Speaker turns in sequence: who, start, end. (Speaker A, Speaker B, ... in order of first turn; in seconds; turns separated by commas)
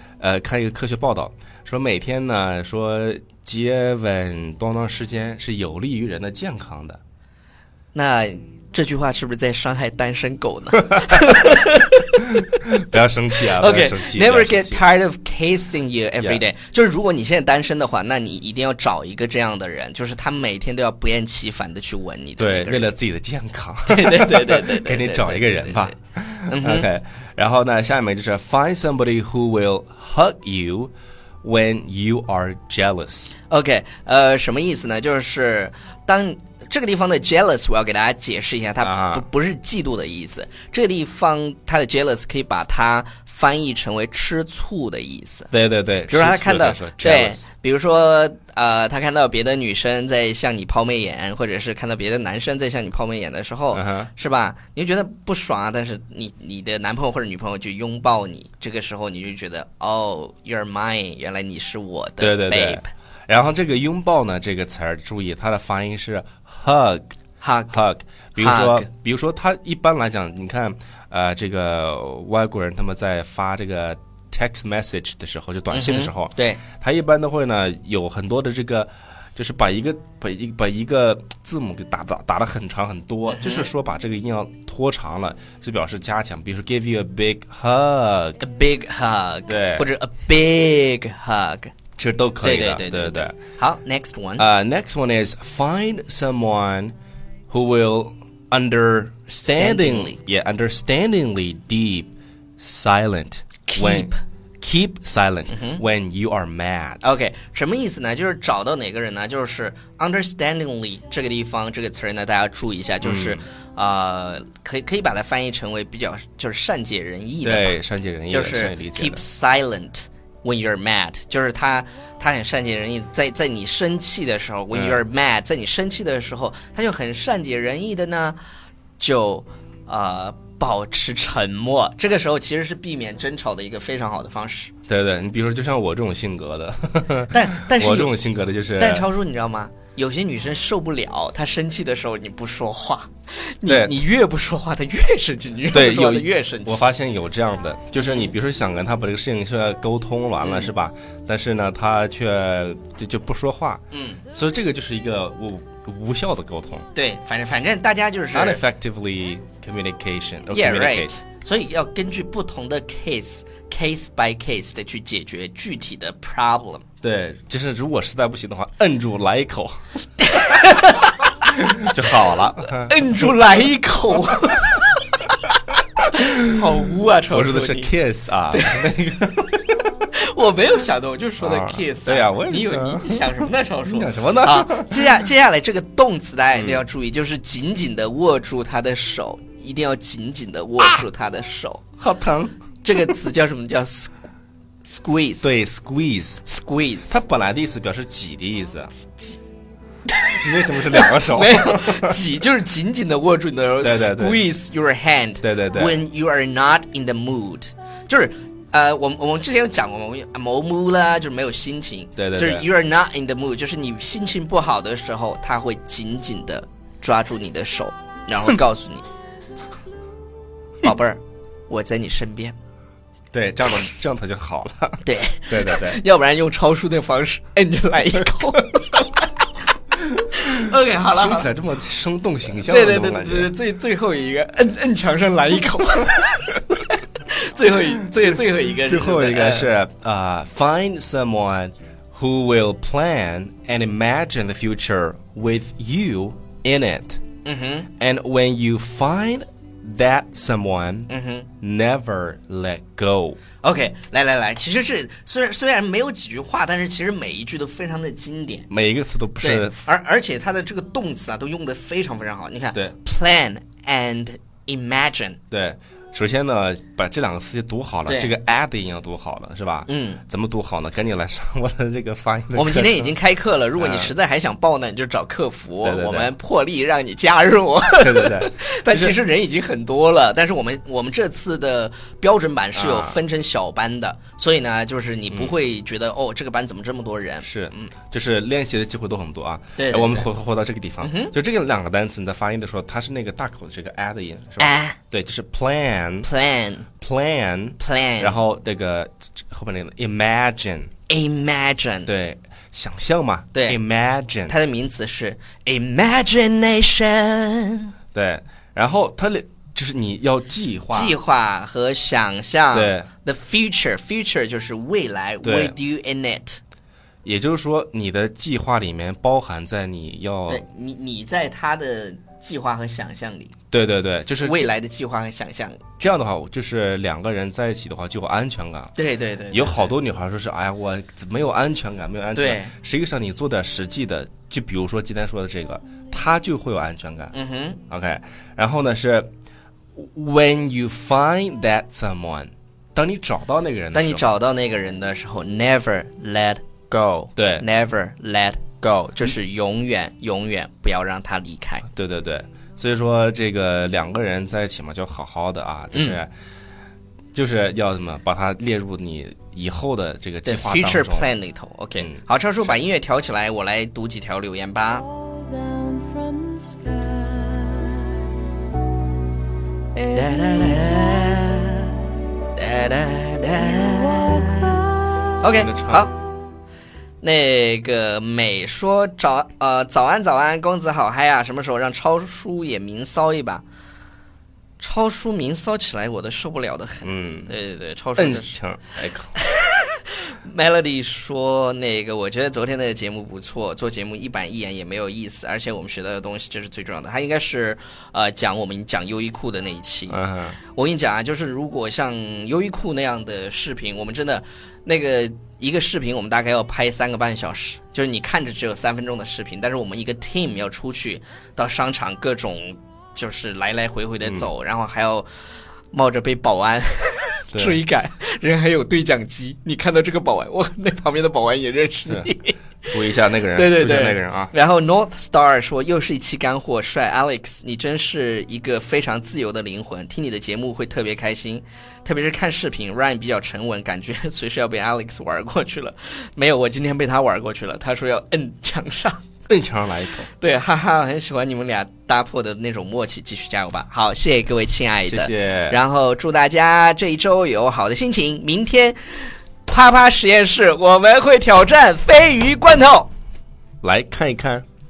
Speaker A: 0.2-7.0, Speaker B: 7.9-12.2, Speaker A: 12.4-14.8, Speaker B: 13.4-22.9, Speaker A: 22.4-33.3, Speaker B: 23.9-25.9, Speaker B: 26.5-26.9, Speaker B: 33.5-45.5, Speaker A: 38.8-39.2, Speaker A: 45.5-47.4, Speaker B: 46.1-62.9, Speaker A: 53.7-54.1, Speaker A: 62.2-67.1, Speaker B: 67.4-67.8, Speaker A: 67.7-88.4, Speaker B: 68.4-68.9, Speaker B: 75.7-76.6, Speaker B: 83.3-83.7, Speaker B: 88.4-91.7, Speaker A: 89.5-89.9, Speaker A: 92.0-93.4, Speaker B: 92.4-94.5, Speaker A: 94.4-97.0, Speaker A: 97.5-107.0, Speaker B: 99.3-100.2, Speaker B: 103.7-104.2, Speaker B: 105.5-105.8, Speaker B: 107.0-117.8, Speaker A: 113.0-113.4, Speaker A: 117.4-119.2, Speaker B: 118.3-128.4, Speaker A: 124.7-125.0, Speaker B: 129.0-134.7, Speaker A: 134.9-139.1, Speaker B: 137.3-138.1, Speaker B: 138.8-146.8, Speaker A: 143.7-143.9, Speaker A: 145.7-156.9, Speaker B: 148.0-148.3, Speaker B: 150.4-150.7, Speaker B: 153.9-154.2, Speaker B: 156.9-158.6, Speaker A: 158.3-161.1, Speaker B: 160.5-166.8, Speaker A: 167.0-169.8, Speaker B: 170.3-172.1, Speaker A: 171.8-173.0, Speaker B: 172.8-177.9, Speaker A: 177.3-179.6, Speaker B: 178.5-178.9, Speaker B: 180.0-191.8, Speaker A: 181.4-185.2, Speaker A: 186.6-186.8, Speaker A: 192.0-192.6, Speaker B: 192.8-194.2, Speaker B: 194.8-195.5, Speaker A: 195.4-196.5, Speaker B: 196.4-197.2, Speaker A: 197.1-198.9, Speaker B: 200.2-219.1, Speaker A: 200.4-202.2, Speaker A: 203.8-204.4, Speaker A: 205.4-206.0, Speaker A: 212.2-212.7, Speaker B: 220.8-222.6, Speaker A: 223.3-226.0, Speaker B: 225.1-229.4, Speaker B: 230.1-231.5, Speaker A: 231.1-233.5, Speaker B: 232.6-239.7, Speaker A: 238.8-247.2, Speaker B: 247.4-247.9, Speaker A: 248.0-251.1, Speaker B: 251.1-251.5, Speaker A: 251.6-253.4, Speaker B: 253.6-258.7, Speaker A: 258.7-259.8, Speaker B: 259.4-265.4, Speaker A: 265.5-273.1, Speaker B: 268.1-268.4, Speaker B: 269.9-270.2, Speaker B: 272.6-287.9, Speaker A: 273.8-274.1, Speaker A: 275.8-276.3, Speaker A: 278.0-279.2, Speaker A: 282.8-283.2, Speaker A: 287.4-296.3, Speaker B: 289.8-290.3, Speaker B: 291.0-291.3, Speaker B: 294.6-295.0, Speaker B: 296.2-296.9, Speaker A: 297.0-300.9, Speaker B: 297.8-298.4, Speaker B: 301.1-302.1, Speaker A: 302.1-304.6, Speaker B: 303.5-303.8, Speaker B: 304.5-307.9, Speaker A: 308.1-311.2, Speaker B: 310.9-316.6, Speaker A: 312.7-313.1, Speaker A: 315.4-315.8, Speaker A: 317.2-320.6, Speaker B: 320.5-323.5, Speaker A: 323.7-324.7, Speaker B: 324.4-325.8, Speaker A: 326.0-328.9, Speaker B: 329.0-329.9, Speaker A: 329.5-337.3, Speaker B: 332.4-332.7, Speaker B: 337.3-337.8, Speaker A: 337.9-339.3, Speaker A: 339.9-344.3, Speaker B: 343.9-351.9, Speaker A: 347.4-347.6, Speaker A: 351.9-356.3, Speaker B: 355.9-356.2, Speaker A: 357.3-361.3, Speaker B: 360.4-365.1, Speaker A: 362.0-362.8, Speaker C: 365.4-368.3, Speaker C: 370.0-371.4, Speaker B: 370.1-376.1, Speaker C: 373.8-374.9, Speaker A: 375.4-376.1, Speaker B: 377.2-383.6, Speaker B: 384.8-388.6, Speaker A: 387.0-387.5, Speaker A: 388.2-389.4, Speaker B: 389.4-415.3, Speaker A: 400.1-400.6, Speaker B: 415.9-422.6, Speaker A: 417.5-417.8, Speaker A: 422.9-424.5, Speaker B: 423.5-439.2, Speaker A: 439.5-440.3, Speaker B: 440.4-453.1, Speaker A: 445.1-445.8, Speaker A: 453.8-454.6